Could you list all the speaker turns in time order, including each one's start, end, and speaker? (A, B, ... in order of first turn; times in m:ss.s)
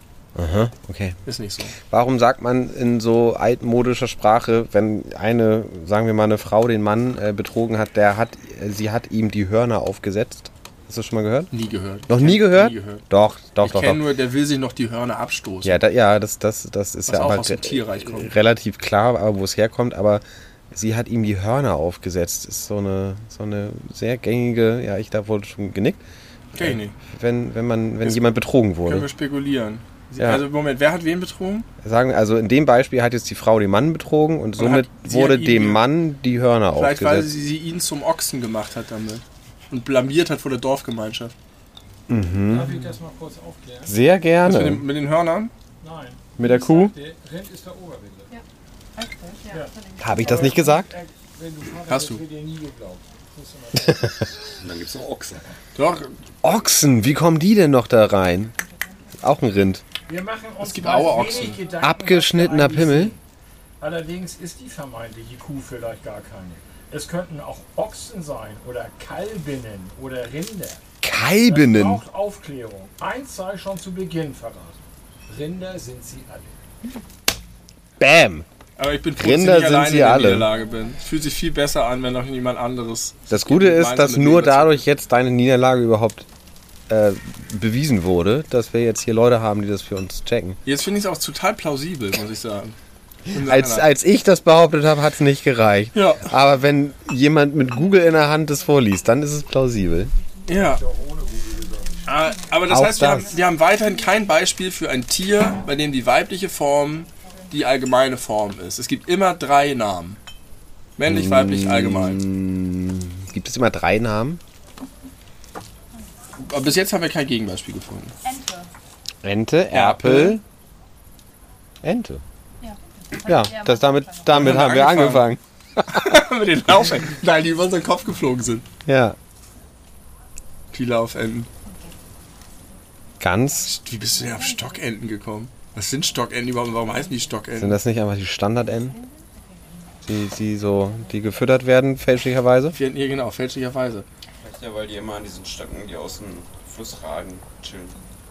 0:00.4-0:01.2 A
0:01.2-0:01.7 B
0:01.8-0:11.5 A
0:11.5-0:13.0 B
0:12.1-0:14.0 A
0:13.6-0:15.8 B
0:15.6-0:26.0 A
0:17.1-0:18.3 B
0:26.5-0:27.0 B
0:26.5-0:29.1 A
0:28.8-0:31.7 B
0:30.2-0:30.4 A
0:31.8-0:37.3 A
0:34.6-0:35.8 B
0:36.7-0:41.3 B
0:42.1-0:42.8 A
0:42.5-0:43.9 C
0:43.8-0:44.8 A
0:44.4-0:45.5 B
0:45.8-0:48.3 C
0:46.4-0:46.9 A
0:49.0-0:50.7 D
0:49.5-0:54.3 C
0:50.0-0:50.9 A
0:51.9-0:52.2 B
0:54.6-0:55.4 E
0:55.7-0:56.1 B
0:56.4-0:58.5 A
0:59.2-0:59.8 A
1:00.0-1:03.2 C
1:00.6-1:01.6 B
1:01.8-1:03.1 A
1:03.8-1:10.8 C
1:11.0-1:12.0 A
1:11.4-1:16.6 C
1:18.0-1:18.4 A
1:18.8-1:24.8 B
1:19.2-1:20.5 A
1:23.3-1:26.3 A
1:26.9-1:30.6 A
1:30.6-1:32.8 B
1:33.3-1:33.9 B
1:33.3-1:40.1 A
1:35.9-1:36.3 B
1:40.5-1:40.8 B
1:40.5-1:42.1 C
1:42.0-1:50.2 B
1:42.7-1:43.3 A
1:51.0-1:52.2 B
1:51.0-1:54.4 A
1:56.4-1:58.2 B
1:58.2-1:58.7 D
1:59.2-2:00.4 A
1:59.7-2:00.4 B
2:01.8-2:02.2 A
2:02.6-2:04.4 D
2:03.2-2:06.1 A
2:04.3-2:05.3 B
2:05.9-2:08.6 B
2:08.8-2:09.2 A
2:10.7-2:11.5 B
2:13.2-2:13.7 A
2:13.6-2:17.8 B
2:14.4-2:14.7 D
2:17.6-2:19.0 A
2:20.0-2:22.8 A
2:22.7-2:24.0 B
2:24.4-2:28.0 E